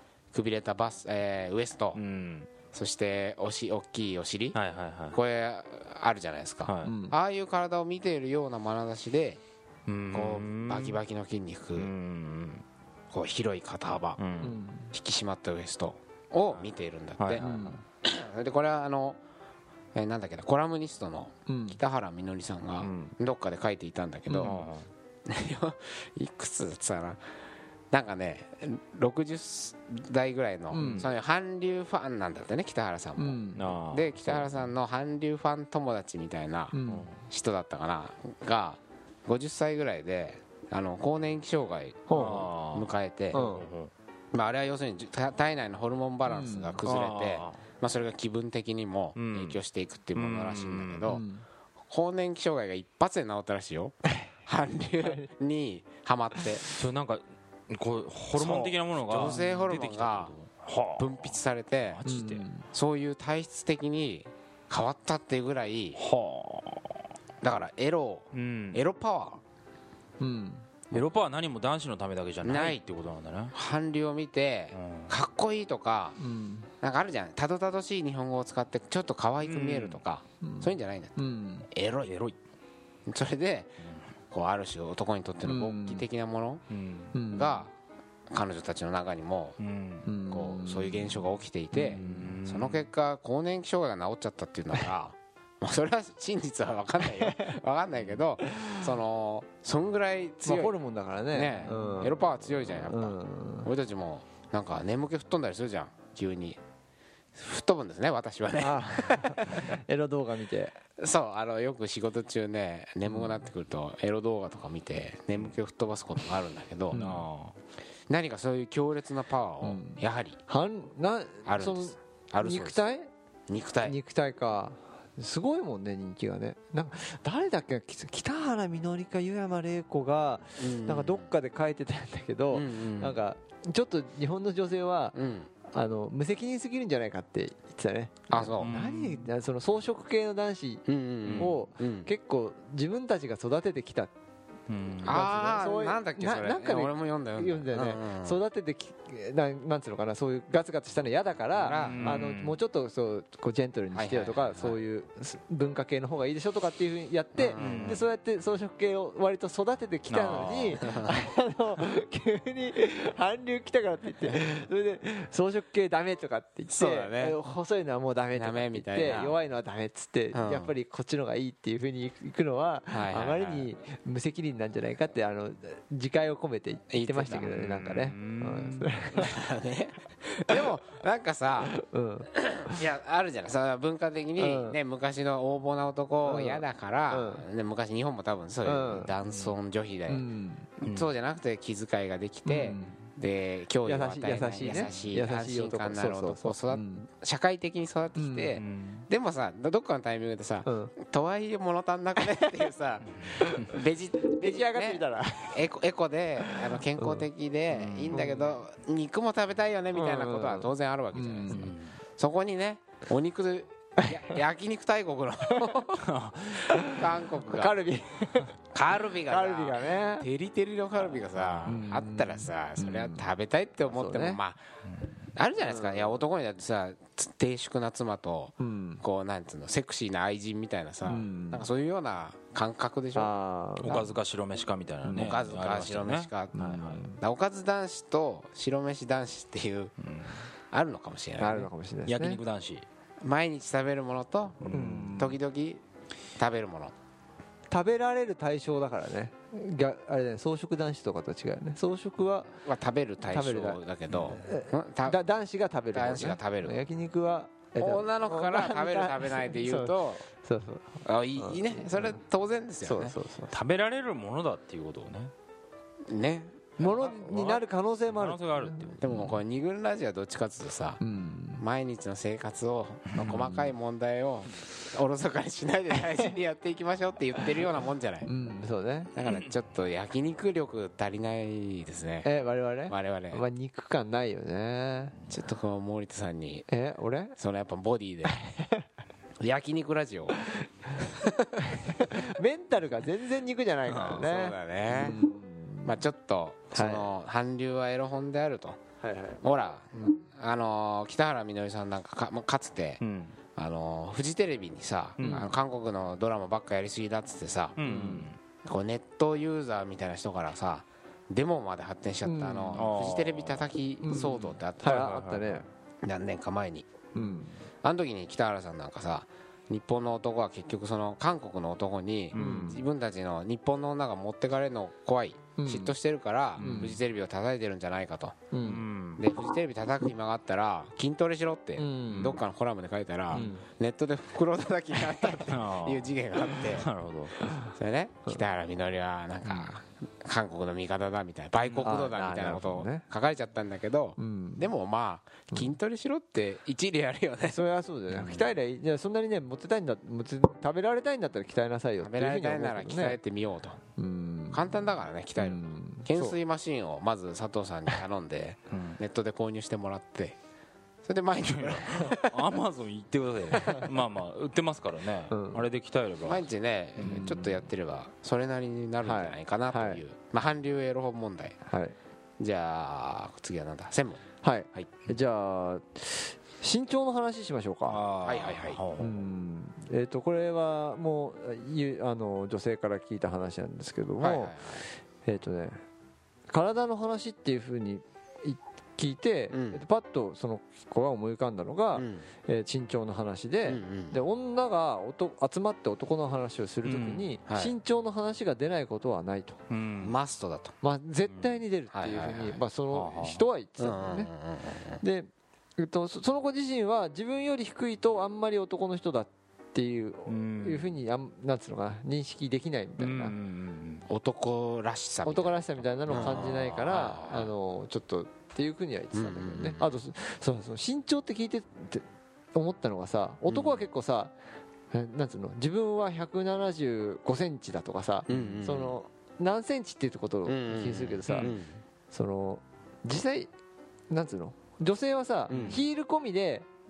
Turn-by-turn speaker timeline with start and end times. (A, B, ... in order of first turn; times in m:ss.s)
0:00.3-0:02.0 A
0:02.0-0:02.5 B
0:02.7-0:04.6 A
0:04.5-0:05.2 B
0:05.1-0:09.4 A
0:06.6-0:06.9 B
0:06.8-0:07.2 C
0:09.9-0:11.0 B
0:10.1-0:11.9 A
0:11.8-0:12.6 B
0:13.1-0:14.2 A
0:14.2-0:14.6 B
0:14.4-0:14.9 C
0:14.9-0:17.5 A
0:17.2-0:17.8 B
0:17.4-0:17.8 C
0:18.0-0:19.2 A
0:20.0-0:24.6 A
0:21.5-0:21.8 C
0:22.8-0:23.1 B
0:24.3-0:24.6 C
0:24.4-0:24.9 B
0:25.3-0:27.2 A
0:27.9-0:43.4 A
0:30.7-0:31.1 C
0:30.8-0:31.1 B
0:33.2-0:33.7 C
0:33.6-0:34.7 B
0:36.7-0:37.1 C
0:36.9-0:37.2 B
0:42.1-0:42.5 C
0:42.1-0:43.9 B
0:43.3-0:43.7 C
0:44.3-0:51.2 A
0:46.3-0:46.8 C
0:46.8-0:47.6 B
0:49.2-0:49.6 B
0:50.2-0:51.1 B
0:51.1-0:51.4 C
0:51.9-0:56.7 A
0:56.8-1:02.4 B
0:58.4-1:00.3 A
0:59.2-0:59.6 C
1:01.0-1:02.0 A
1:02.1-1:02.7 C
1:02.7-1:06.0 A
1:06.0-1:07.0 B
1:07.4-1:09.4 A
1:08.3-1:08.8 B
1:10.2-1:10.7 C
1:10.9-1:13.5 B
1:12.4-1:12.8 A
1:13.5-1:16.2 A
1:14.7-1:15.1 B
1:16.2-1:16.7 C
1:16.8-1:21.2 A
1:19.4-1:20.0 B
1:20.4-1:21.7 C
1:21.7-1:22.1 A
1:22.0-1:22.4 B
1:23.1-1:23.8 A
1:24.3-1:26.6 A
1:25.4-1:26.0 C
1:26.7-1:27.2 B
1:27.1-1:27.7 C
1:27.3-1:27.7 A
1:28.3-1:29.6 A
1:29.6-1:30.1 B
1:30.0-1:31.2 C
1:30.3-1:40.8 A
1:31.8-1:32.9 B
1:31.8-1:32.3 C
1:37.2-1:37.5 C
1:38.5-1:38.8 C
1:40.4-1:43.7 C
1:41.3-1:46.6 A
1:47.4-1:49.6 A
1:48.6-1:50.8 C
1:51.0-1:57.0 A
1:53.1-1:53.4 C
1:56.9-1:57.3 C
1:56.9-1:57.6 B
1:58.1-2:00.4 A
1:59.6-2:03.1 C
2:01.5-2:02.8 A
2:03.5-2:04.0 A
2:03.8-2:15.2 C
2:10.6-2:11.3 A
2:12.5-2:13.2 A
2:15.2-2:15.5 A
2:15.7-2:20.8 C
2:18.3-2:18.7 A
2:18.6-2:19.3 B
2:20.9-2:22.1 A
2:21.2-2:21.6 B
2:21.4-2:24.1 C
2:24.7-2:25.2 B
2:25.0-2:28.4 A
2:25.0-2:59.4 C
2:31.6-2:32.3 A
2:31.8-2:32.6 B
2:33.9-2:34.8 A
2:37.4-2:38.0 A
2:37.6-2:38.0 B
2:40.1-2:40.8 B
2:40.8-2:41.2 A
2:46.7-2:47.4 A
2:48.4-2:49.4 A
2:50.3-2:50.7 A
2:52.9-2:53.7 A
2:56.9-2:57.5 A
2:57.3-2:58.9 B
2:59.2-3:01.7 A
3:01.7-3:02.8 C
3:02.3-3:10.3 A
3:04.4-3:04.8 C
3:06.2-3:07.4 C
3:08.6-3:09.1 C
3:10.1-3:10.7 C
3:10.8-3:36.1 A
3:12.4-3:13.0 C
3:13.9-3:17.1 C
3:18.2-3:18.6 C
3:18.6-3:19.1 B
3:20.6-3:20.9 C
3:23.3-3:23.8 C
3:24.3-3:25.6 C
3:26.4-3:27.2 C
3:27.7-3:28.3 B
3:28.1-3:28.5 C
3:29.9-3:31.6 C
3:31.5-3:31.9 B
3:34.0-3:34.4 C
3:35.5-3:35.8 C
3:36.0-3:36.7 B
3:36.7-3:37.8 A
3:36.7-3:38.6 C
3:38.7-3:44.6 A
3:39.3-3:40.3 C
3:41.7-3:43.3 C
3:43.9-3:44.4 C
3:45.4-3:54.1 A
3:45.7-3:46.2 C
3:48.6-3:49.0 C
3:51.0-3:51.7 C
3:53.2-3:54.0 C
3:53.8-3:57.1 B
3:55.1-3:59.9 A
3:56.5-3:57.2 C
4:00.0-4:00.4 B
4:00.7-4:01.7 A
4:01.4-4:02.4 C
4:02.1-4:02.9 B
4:03.2-4:05.8 A
4:04.6-4:05.3 B
4:04.7-4:05.4 C
4:06.4-4:06.9 A
4:07.7-4:12.5 C
4:12.6-4:15.2 A
4:13.3-4:22.2 C
4:14.1-4:14.4 B
4:15.9-4:16.8 A
4:17.8-4:20.2 A
4:21.0-4:23.2 A
4:22.8-4:23.5 C
4:23.5-4:25.3 B
4:26.1-4:26.9 A
4:26.8-4:29.3 C
4:26.8-4:29.3 B
4:29.0-4:31.0 A
4:31.0-4:31.6 C
4:31.6-4:38.3 A
4:33.2-4:33.7 C
4:38.2-4:39.1 C
4:39.2-4:42.3 A
4:39.2-4:39.5 B
4:42.2-4:45.2 C
4:42.9-4:43.4 A
4:45.3-4:46.7 A
4:46.7-4:47.4 C
4:47.4-4:48.4 A
4:48.5-4:48.8 C
4:49.4-4:50.4 A
4:51.0-4:51.7 A
4:51.6-4:56.0 C
4:54.0-4:55.2 A
4:55.8-4:58.8 A
4:56.7-4:57.1 C
4:59.0-4:59.4 C
4:59.4-5:03.0 A
5:03.0-5:03.4 B
5:03.6-5:07.8 A
5:05.2-5:05.5 B
5:05.2-5:05.5 C
5:07.8-5:08.4 B
5:07.8-5:08.3 C
5:08.6-5:15.1 A
5:12.2-5:12.9 C
5:12.7-5:13.7 B
5:14.0-5:15.7 C
5:14.8-5:15.6 B
5:16.0-5:16.9 A
5:17.2-5:17.6 C
5:17.8-5:28.5 A
5:22.3-5:22.7 B
5:22.4-5:22.9 C
5:25.6-5:25.9 C
5:26.6-5:27.0 B
5:26.6-5:27.0 C
5:28.5-5:28.9 C
5:28.6-5:29.2 B
5:29.2-5:36.9 A
5:31.8-5:32.4 C
5:32.1-5:32.4 B
5:33.3-5:33.6 C
5:35.5-5:37.4 B
5:37.4-5:37.7 C
5:37.7-5:47.6 A
5:41.6-5:41.9 B
5:41.8-5:43.0 C
5:44.2-5:44.7 C
5:47.5-5:53.2 C
5:48.2-5:48.4 A
5:52.0-5:53.8 A
5:54.0-5:54.8 C
5:54.5-6:00.4 A
5:55.4-5:56.4 C
5:58.7-5:59.0 B
6:01.0-6:02.5 A
6:01.4-6:06.5 B
6:03.6-6:03.8 C
6:05.3-6:05.6 C
6:06.2-6:11.6 A
6:07.0-6:07.6 B
6:07.0-6:07.4 C
6:09.0-6:10.0 C
6:11.7-6:12.0 C
6:12.4-6:14.2 A
6:14.4-6:18.0 C
6:17.8-6:19.2 B
6:18.2-6:18.8 A
6:19.0-6:24.6 C
6:24.2-6:24.8 A
6:25.2-6:25.8 C
6:26.5-6:39.6 C
6:29.5-6:29.8 A
6:31.9-6:32.3 A
6:33.7-6:34.2 A
6:36.8-6:37.3 B
6:37.5-6:37.7 A
6:39.7-6:40.2 B
6:40.0-6:40.7 A
6:40.8-6:44.3 C
6:41.9-6:42.6 A
6:42.9-6:43.4 B
6:43.8-6:45.0 A
6:45.0-6:53.4 C
6:50.3-6:50.9 B
6:53.0-6:54.1 B
6:54.1-6:57.5 A
6:55.2-7:04.3 C
6:56.1-6:56.5 B
6:59.1-6:59.9 A
7:03.5-7:03.9 A
7:04.9-7:11.5 C
7:08.3-7:09.0 A
7:08.3-7:08.6 B
7:10.5-7:11.8 A
7:12.1-7:13.5 C
7:14.1-7:16.7 C
7:15.5-7:15.8 A
7:15.5-7:15.8 B